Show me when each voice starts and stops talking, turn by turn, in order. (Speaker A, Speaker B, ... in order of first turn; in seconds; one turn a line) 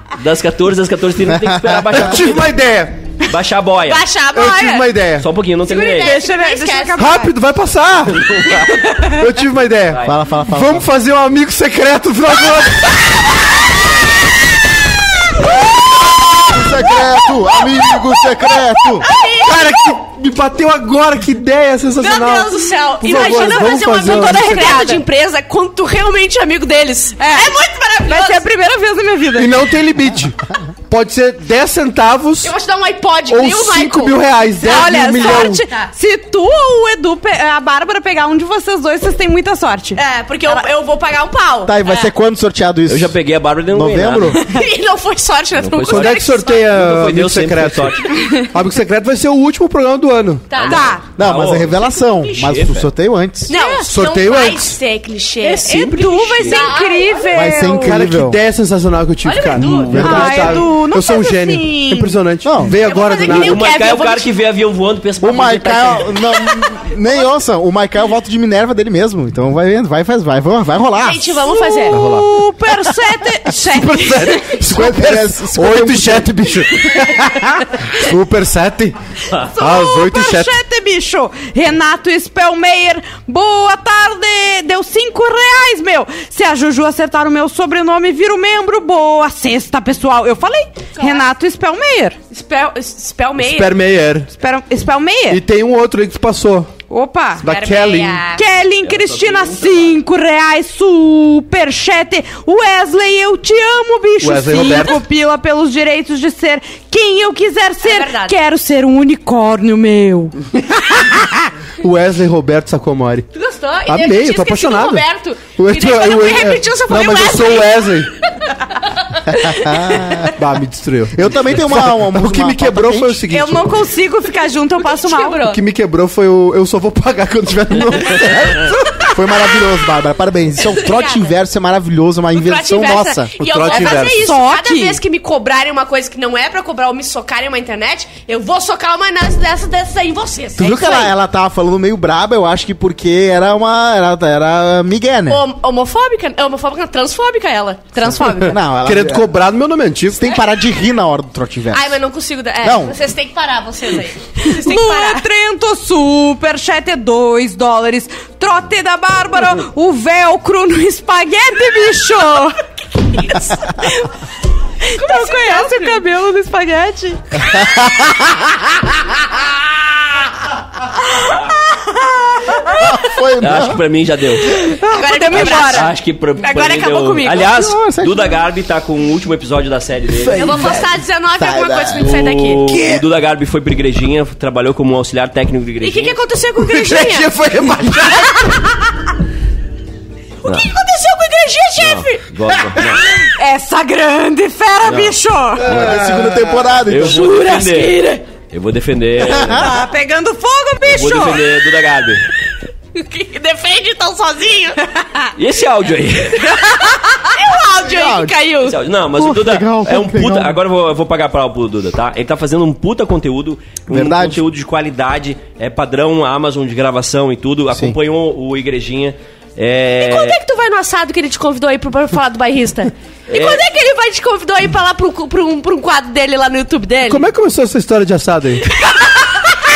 Speaker A: 0.2-2.5
Speaker B: 1.2-2.0
Speaker C: 1.9-3.0
Speaker A: 3.2-4.1
Speaker D: 3.9-4.9
Speaker C: 4.3-5.3
Speaker A: 5.2-6.2
Speaker D: 5.6-7.1
Speaker E: 5.9-7.3
Speaker C: 7.0-8.3
Speaker A: 8.1-8.9
Speaker C: 9.0-13.1
Speaker A: 9.9-10.2
Speaker B: 9.9-10.8
Speaker B: 16.4-19.1
Speaker D: 17.7-19.9
Speaker C: 19.4-24.8
Speaker D: 21.9-28.4
Speaker E: 23.3-25.0
Speaker E: 27.2-29.5
Speaker C: 29.4-32.5
Speaker D: 32.4-35.9
Speaker C: 33.3-35.6
Speaker E: 34.6-40.6
Speaker D: 39.9-42.1
Speaker B: 41.6-43.1
Speaker A: 42.9-44.4
Speaker B: 43.7-44.4
Speaker D: 44.4-46.7
Speaker A: 45.6-48.2
Speaker C: 45.9-50.6
Speaker D: 50.5-51.0
Speaker A: 50.5-52.9
Speaker E: 50.7-51.0
Speaker B: 51.1-53.5
Speaker D: 53.5-57.6
Speaker E: 53.5-53.9
Speaker C: 53.9-54.8
Speaker E: 55.4-58.0
Speaker A: 55.6-56.7
Speaker B: 57.3-58.4
Speaker C: 57.8-63.7
Speaker D: 59.2-60.5
Speaker B: 59.7-60.6
Speaker E: 59.9-62.1
Speaker B: 62.4-62.8
Speaker D: 62.8-64.3
Speaker A: 63.2-66.2
Speaker B: 65.2-71.4
Speaker D: 71.0-72.1
Speaker E: 71.5-74.5
Speaker C: 71.9-72.4
Speaker C: 73.6-79.0
Speaker B: 74.6-76.3
Speaker E: 79.5-92.2
Speaker C: 79.5-80.5
Speaker D: 91.0-91.3
Speaker D: 92.3-93.8
Speaker C: 93.4-94.3
Speaker E: 94.4-95.4
Speaker C: 95.3-96.7
Speaker E: 96.9-97.4
Speaker C: 97.4-98.2
Speaker D: 97.4-98.4
Speaker E: 98.3-110.3
Speaker A: 98.8-100.0
Speaker C: 104.2-105.0
Speaker D: 107.8-108.4
Speaker E: 111.0-111.4
Speaker C: 111.8-113.3
Speaker D: 113.3-117.9
Speaker C: 113.9-118.1
Speaker D: 118.4-120.2
Speaker B: 119.3-120.3
Speaker C: 120.3-123.7
Speaker B: 121.1-123.2
Speaker E: 123.3-125.4
Speaker D: 124.8-125.6
Speaker C: 125.4-128.8
Speaker B: 128.4-133.3
Speaker D: 130.7-131.3
Speaker D: 132.3-141.1
Speaker C: 133.4-134.3
Speaker E: 133.7-135.0
Speaker B: 140.6-145.4
Speaker D: 145.3-148.6
Speaker C: 148.3-150.3
Speaker B: 148.4-149.3
Speaker B: 150.1-152.0
Speaker D: 151.7-155.3
Speaker B: 152.6-152.9
Speaker E: 154.4-162.6
Speaker D: 163.1-163.9
Speaker E: 164.8-167.2
Speaker D: 165.0-166.1
Speaker B: 167.6-168.4
Speaker E: 172.4-172.8
Speaker B: 172.8-173.8
Speaker A: 173.4-174.5
Speaker E: 174.5-175.9
Speaker D: 174.8-177.4
Speaker A: 175.3-180.5
Speaker B: 177.5-178.3
Speaker C: 180.3-180.6
Speaker D: 180.3-182.8
Speaker B: 180.3-182.1
Speaker A: 182.0-186.2
Speaker D: 185.8-187.3
Speaker C: 186.6-188.6
Speaker A: 190.4-190.7
Speaker D: 190.4-192.3
Speaker A: 191.8-193.1
Speaker E: 193.2-195.7
Speaker A: 194.8-195.2
Speaker C: 195.6-196.7
Speaker B: 195.6-197.3
Speaker A: 195.7-195.9
Speaker A: 196.9-199.7
Speaker E: 197.1-198.2
Speaker B: 199.2-199.7
Speaker E: 199.5-201.4
Speaker A: 200.8-202.2
Speaker D: 202.9-204.8
Speaker E: 205.0-205.3
Speaker A: 205.3-206.6
Speaker D: 206.5-208.8
Speaker B: 207.8-208.4
Speaker A: 208.6-220.4
Speaker B: 209.2-210.6
Speaker B: 213.9-214.4
Speaker B: 217.7-217.9
Speaker D: 220.0-227.3
Speaker A: 223.3-223.6
Speaker C: 227.0-228.7
Speaker D: 228.8-229.1